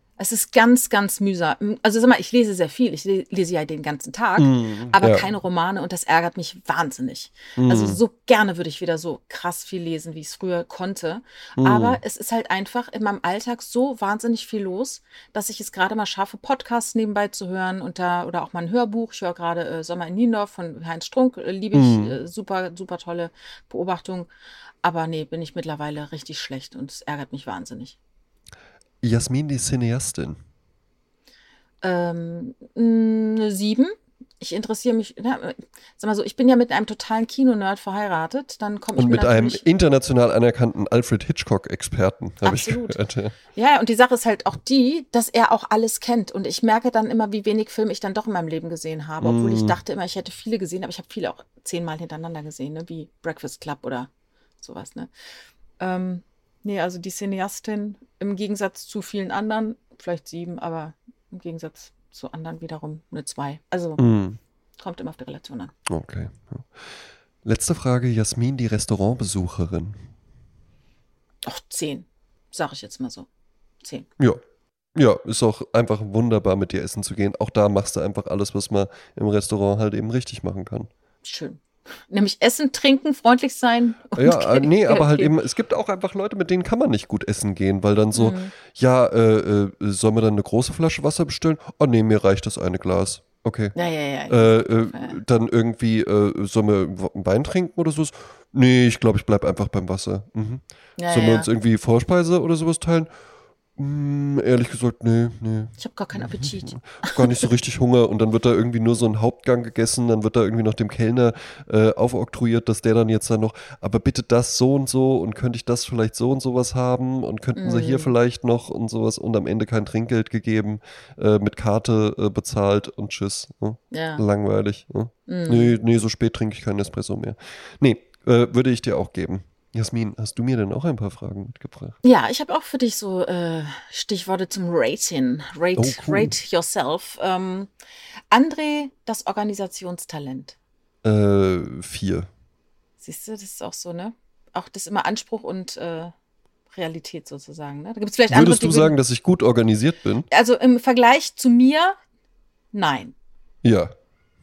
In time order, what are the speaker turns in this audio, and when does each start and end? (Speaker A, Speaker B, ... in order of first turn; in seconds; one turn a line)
Speaker A: 0.2-24.3
Speaker B: 4.4-5.2
Speaker B: 7.6-8.0
Speaker B: 11.6-12.0
Speaker B: 21.7-22.2
Speaker A: 24.8-28.0
Speaker B: 29.0-30.4
Speaker A: 31.8-39.6
Speaker B: 39.0-43.4
Speaker A: 42.4-43.0
Speaker A: 43.5-54.1
Speaker B: 49.2-49.8
Speaker A: 54.6-55.1
Speaker A: 55.8-64.0
Speaker B: 64.0-64.4
Speaker A: 64.8-65.7
Speaker B: 65.9-66.8
Speaker B: 67.4-70.0
Speaker A: 71.4-73.3
Speaker B: 75.0-80.9
Speaker A: 81.2-85.3
Speaker B: 84.2-93.7
Speaker A: 88.1-88.5
Speaker A: 93.7-95.2
Speaker B: 94.3-103.1
Speaker A: 101.0-101.5
Speaker B: 103.8-132.0
Speaker A: 105.8-107.5
Speaker A: 117.5-118.1
Speaker A: 123.9-124.2
Speaker A: 125.3-125.7
Speaker A: 132.0-137.7
Speaker B: 135.8-136.3
Speaker A: 138.3-140.6
Speaker B: 141.0-142.3
Speaker A: 143.0-146.1
Speaker A: 146.7-148.9
Speaker B: 148.3-150.3
Speaker A: 150.3-151.9
Speaker A: 152.7-153.1
Speaker B: 153.6-153.9